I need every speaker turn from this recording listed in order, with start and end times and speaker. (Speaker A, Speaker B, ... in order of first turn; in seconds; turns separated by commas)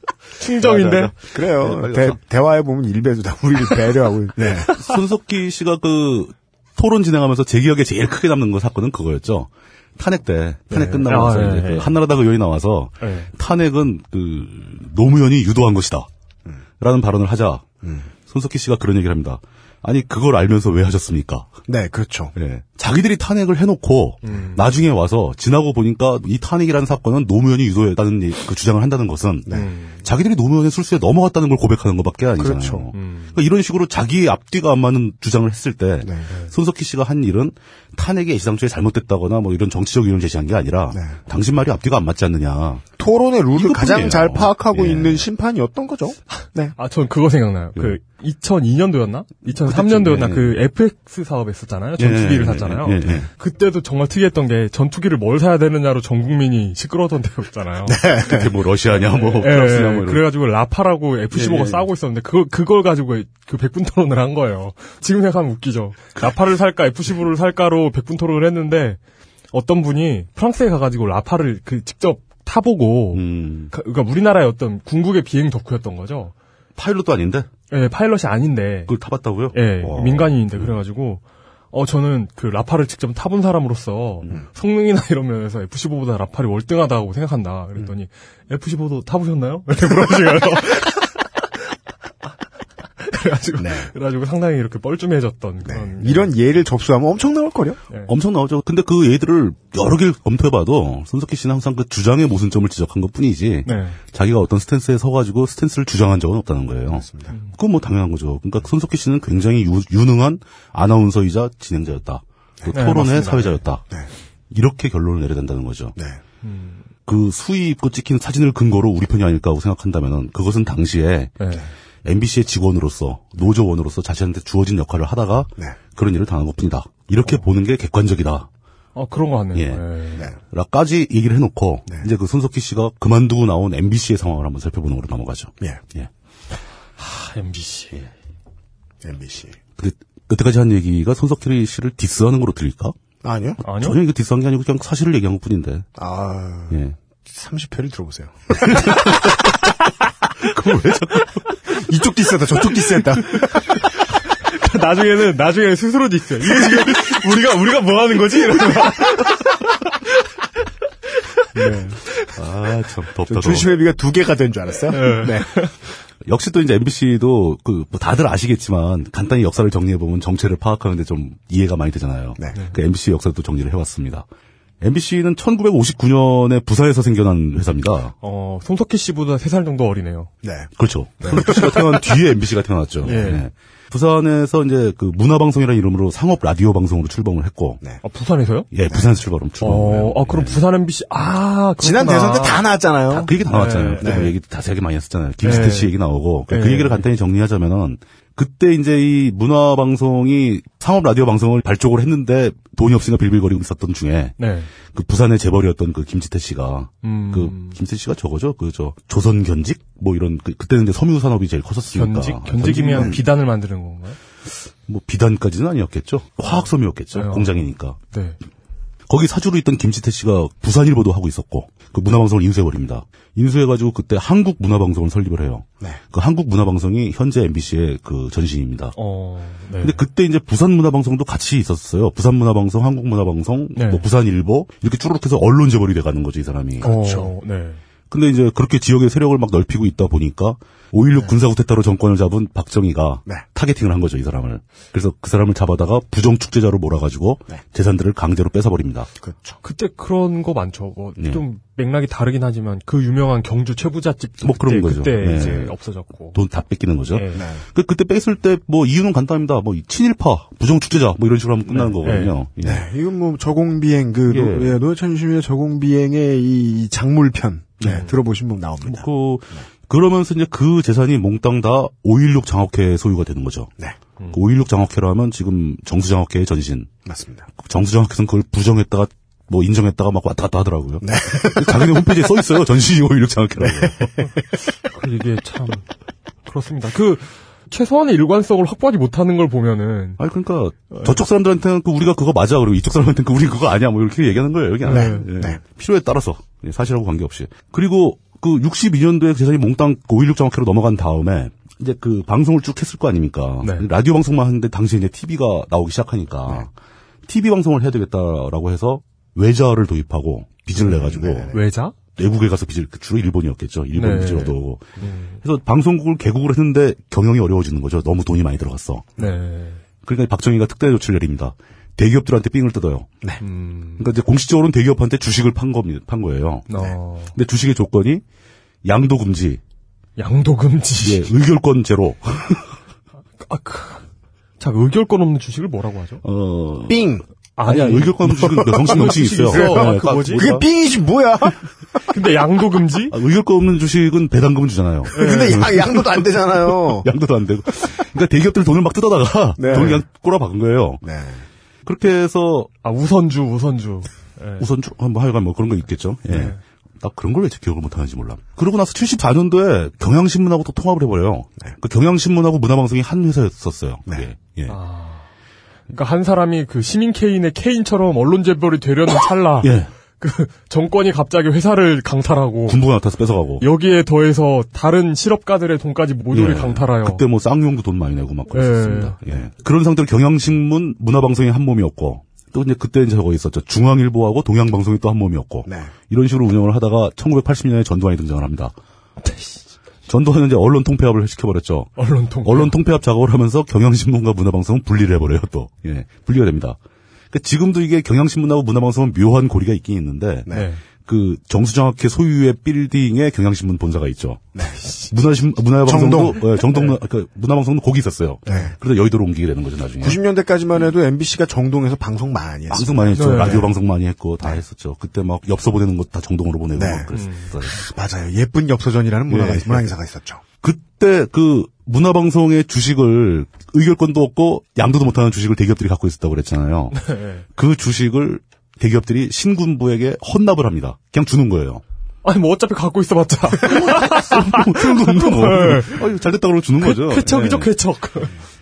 Speaker A: 0.4-1.1, Speaker B: 0.6-2.2, Speaker C: 1.3-4.7, Speaker B: 4.6-16.1, Speaker A: 10.7-11.9, Speaker A: 13.0-13.3, Speaker B: 16.8-17.7, Speaker C: 17.8-18.1, Speaker B: 18.3-21.5, Speaker C: 21.7-22.3, Speaker B: 22.4-42.9, Speaker A: 24.2-24.6, Speaker A: 29.5-30.0, Speaker C: 32.4-32.9, Speaker A: 32.9-33.3, Speaker C: 40.9-41.2, Speaker C: 43.0-46.8, Speaker B: 43.5-45.2, Speaker A: 46.8-58.0, Speaker B: 49.6-50.6, Speaker B: 52.0-53.3, Speaker C: 57.9-58.5, Speaker B: 58.2-60.3, Speaker A: 59.0-69.0, Speaker B: 61.3-61.9, Speaker A: 69.5-76.3, Speaker B: 73.1-73.7, Speaker B: 76.8-77.5, Speaker A: 77.7-78.9, Speaker B: 78.9-80.7, Speaker A: 79.5-91.1, Speaker A: 93.0-96.3, Speaker C: 93.6-93.9, Speaker C: 95.7-97.8, Speaker B: 98.1-113.9, Speaker A: 103.7-104.0, Speaker C: 106.9-107.3, Speaker C: 112.6-112.9, Speaker A: 112.7-113.6, Speaker B: 114.5-116.0, Speaker C: 116.0-116.2, Speaker A: 116.4-116.8, Speaker B: 117.1-121.4, Speaker B: 122.0-128.5, Speaker A: 128.9-130.3, Speaker B: 129.5-129.8, Speaker B: 130.4-136.1, Speaker A: 137.0-138.1, Speaker C: 139.0-139.6, Speaker B: 139.8-142.9, Speaker C: 143.2-143.6, Speaker A: 143.6-144.0, Speaker B: 143.7-145.9, Speaker C: 146.0-149.2, Speaker B: 148.7-149.5, Speaker B: 150.5-151.5, Speaker C: 151.7-153.8, Speaker A: 154.5-159.5, Speaker C: 161.6-162.0, Speaker B: 162.3-163.7, Speaker C: 163.3-165.5, Speaker A: 164.9-165.7, Speaker B: 166.2-174.2, Speaker B: 174.8-178.2, Speaker A: 178.2-180.3, Speaker C: 180.4-180.7, Speaker B: 180.8-187.8, Speaker C: 181.2-182.0, Speaker A: 183.0-183.4, Speaker A: 188.0-188.7, Speaker B: 188.7-190.6, Speaker C: 188.9-189.1, Speaker A: 189.6-192.6, Speaker C: 191.8-193.3, Speaker B: 193.1-213.2, Speaker A: 193.5-194.3, Speaker C: 194.0-194.3, Speaker A: 195.4-195.9, Speaker A: 196.5-197.1, Speaker A: 204.4-204.7, Speaker A: 207.0-207.8, Speaker A: 211.9-214.2, Speaker C: 212.9-213.2, Speaker B: 214.9-218.0, Speaker A: 216.4-217.6, Speaker A: 218.1-218.4, Speaker B: 219.1-229.0, Speaker A: 228.9-230.0, Speaker B: 229.8-236.9, Speaker A: 233.8-234.1, Speaker C: 236.8-237.3, Speaker A: 236.8-237.8, Speaker B: 238.1-249.1, Speaker C: 249.2-249.6, Speaker A: 249.6-256.4, Speaker B: 254.4-255.7, Speaker B: 256.3-262.9, Speaker A: 257.1-257.4, Speaker C: 257.3-257.6, Speaker A: 261.7-262.3, Speaker C: 262.6-269.6, Speaker B: 264.3-264.8, Speaker B: 267.8-268.1, Speaker A: 267.8-268.1, Speaker B: 268.8-273.7, Speaker B: 274.3-276.9, Speaker C: 277.1-277.5, Speaker B: 277.6-284.3, Speaker C: 281.0-282.2, Speaker C: 283.6-283.9, Speaker A: 284.9-285.9, Speaker A: 286.5-290.2, Speaker B: 290.2-306.7, Speaker A: 294.9-295.3, Speaker C: 294.9-295.6, Speaker A: 303.6-303.9, Speaker B: 307.3-311.5, Speaker C: 310.8-311.6, Speaker A: 311.5-312.0, Speaker B: 312.1-314.9, Speaker A: 313.9-315.4, Speaker B: 315.4-319.2, Speaker A: 319.2-319.8, Speaker B: 320.1-323.1, Speaker A: 323.4-324.1, Speaker B: 324.0-326.7, Speaker A: 326.7-327.3, Speaker B: 327.3-328.2, Speaker B: 328.8-329.6, Speaker A: 330.2-331.3, Speaker B: 331.0-332.7, Speaker A: 333.4-334.1, Speaker A: 334.6-336.2, Speaker B: 336.2-337.1, Speaker C: 336.9-337.2, Speaker A: 337.6-340.5, Speaker B: 337.6-340.7, Speaker C: 338.2-341.6, Speaker A: 342.1-343.2, Speaker B: 343.1-351.0, Speaker C: 345.1-347.1, Speaker A: 345.1-345.7, Speaker C: 349.6-350.0, Speaker A: 349.7-350.0, Speaker C: 351.0-351.4, Speaker B: 351.9-352.7, Speaker A: 352.8-354.7, Speaker B: 354.6-364.8, Speaker A: 356.3-356.6, Speaker A: 364.7-365.3, Speaker A: 365.9-372.8, Speaker B: 369.6-369.9, Speaker B: 372.7-373.6, Speaker A: 373.6-377.2, Speaker B: 376.3-388.7, Speaker A: 378.5-379.2, Speaker C: 385.7-385.9, Speaker A: 389.2-389.6, Speaker B: 390.1-396.8, Speaker A: 392.0-392.8, Speaker B: 397.3-400.5, Speaker A: 400.5-400.8, Speaker B: 401.1-404.5, Speaker A: 404.8-405.1, Speaker B: 405.1-410.2, Speaker C: 405.9-406.4, Speaker A: 406.6-406.9, Speaker C: 408.5-408.8, Speaker C: 410.0-413.6, Speaker B: 412.7-417.8, Speaker A: 413.1-413.7, Speaker C: 416.8-417.1, Speaker A: 417.1-417.6, Speaker C: 417.7-420.4, Speaker B: 419.3-419.9, Speaker B: 420.6-431.8, Speaker A: 427.0-427.4, Speaker A: 432.2-436.0, Speaker B: 433.6-437.7, Speaker A: 436.8-438.3